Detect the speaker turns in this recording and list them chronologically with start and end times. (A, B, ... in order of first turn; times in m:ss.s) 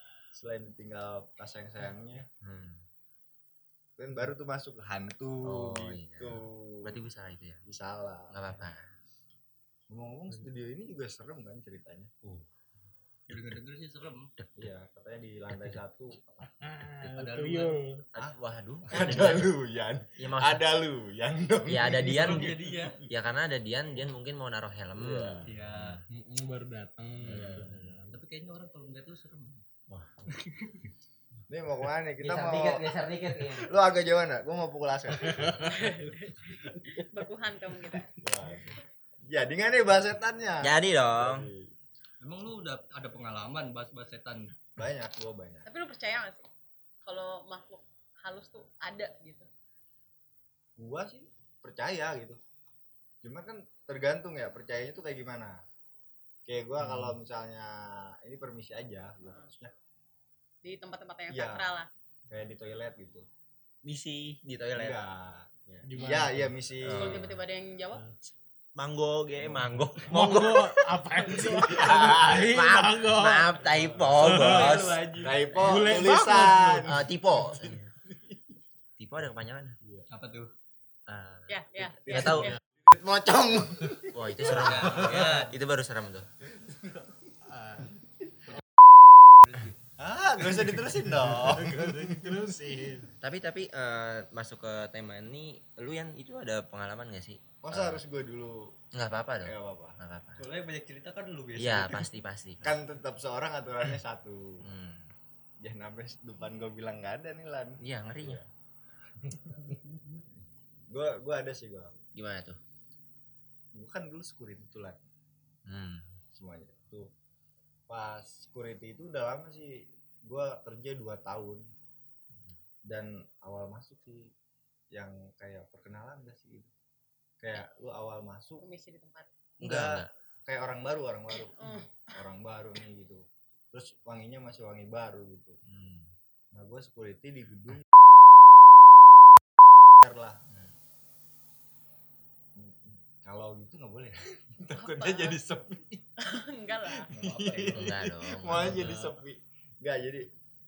0:00.3-0:02.3 A
0:02.4-0:02.8 B
0:04.0-0:07.0 A
0:05.4-0:07.6 B
0:07.6-0:08.6 A
0:08.3-0:08.9 B
0:09.9-0:12.1 A
0:13.3-0:14.3 C
0:13.3-0:13.6 B
0:14.4-0:14.7 B
0:14.6-0:16.5 A
0:15.5-0:15.8 B
0:16.6-0:18.0 D
0:17.0-0:17.8 C
0:18.2-0:19.5 B
0:18.9-0:23.1 A
0:20.2-0:20.7 B
0:21.7-0:22.5 B
0:22.1-0:23.0 C
0:23.1-0:26.0 B
0:25.0-0:25.5 A
0:25.5-0:26.0 C
0:26.1-0:28.1 D
0:27.2-0:28.0 B
0:27.3-0:27.7 A
0:28.1-0:29.6 C
0:29.9-0:30.2 B
0:30.3-0:30.8 C
0:31.5-0:33.0 A
0:32.2-0:33.7 B
0:33.5-0:35.7 A
0:35.2-0:35.7 D
0:35.6-0:38.1 E
0:38.2-0:41.7 A
0:40.6-0:41.5 B
0:42.2-0:44.5 C
0:44.8-0:45.7 A
0:45.6-0:46.5 E
0:47.0-0:49.5 E
0:50.8-0:52.4 A
0:53.2-0:55.6 A
0:56.5-0:59.7 A
0:56.8-0:57.2 B
0:59.2-0:59.5 E
1:00.6-1:01.9 E
1:01.3-1:01.7 A
1:02.3-1:03.3 A
1:03.8-1:05.0 B
1:04.8-1:07.2 A
1:05.8-1:06.5 D
1:06.8-1:07.4 B
1:06.9-1:08.0 E
1:08.8-1:10.8 B
1:09.4-1:09.8 A
1:10.1-1:13.6 D
1:11.2-1:11.5 E
1:11.3-1:12.5 A
1:11.8-1:15.0 B
1:13.7-1:14.2 A
1:14.0-1:15.5 C
1:14.2-1:14.8 D
1:15.1-1:17.8 A
1:15.6-1:16.9 D
1:16.9-1:17.9 B
1:19.0-1:19.8 B
1:20.1-1:20.5 C
1:21.1-1:22.6 B
1:21.5-1:22.6 E
1:22.0-1:25.3 A
1:24.1-1:26.3 B
1:24.4-1:25.6 C
1:24.7-1:25.2 D
1:26.5-1:27.1 A
1:27.5-1:27.9 D
1:29.4-1:29.8 C
1:30.0-1:32.5 A
1:31.2-1:33.1 D
1:33.2-1:38.0 B
1:37.6-1:38.8 A
1:38.9-1:40.4 B
1:39.4-1:40.0 A
1:40.4-1:42.1 C
1:41.6-1:42.6 B
1:42.6-1:44.7 A
1:44.6-1:45.1 B
1:45.6-1:48.5 A
1:47.8-1:48.4 B
1:49.5-1:50.2 A
1:50.9-1:52.0 A
1:52.2-1:52.6 B
1:53.7-1:55.0 A
1:55.7-1:56.1 B
1:56.3-1:57.1 A
1:57.9-2:01.7 A
2:02.9-2:04.3 A
2:04.9-2:06.7 A
2:07.4-2:08.6 A
2:08.6-2:09.3 E
2:09.6-2:15.6 A
2:09.6-2:10.1 B
2:11.5-2:12.2 E
2:15.6-2:16.1 B
2:16.5-2:18.0 A
2:20.0-2:20.4 A
2:22.6-2:26.1 A
2:24.7-2:25.4 E
2:26.2-2:27.1 E
2:26.8-2:30.3 A
2:27.1-2:28.0 C
2:27.7-2:29.2 B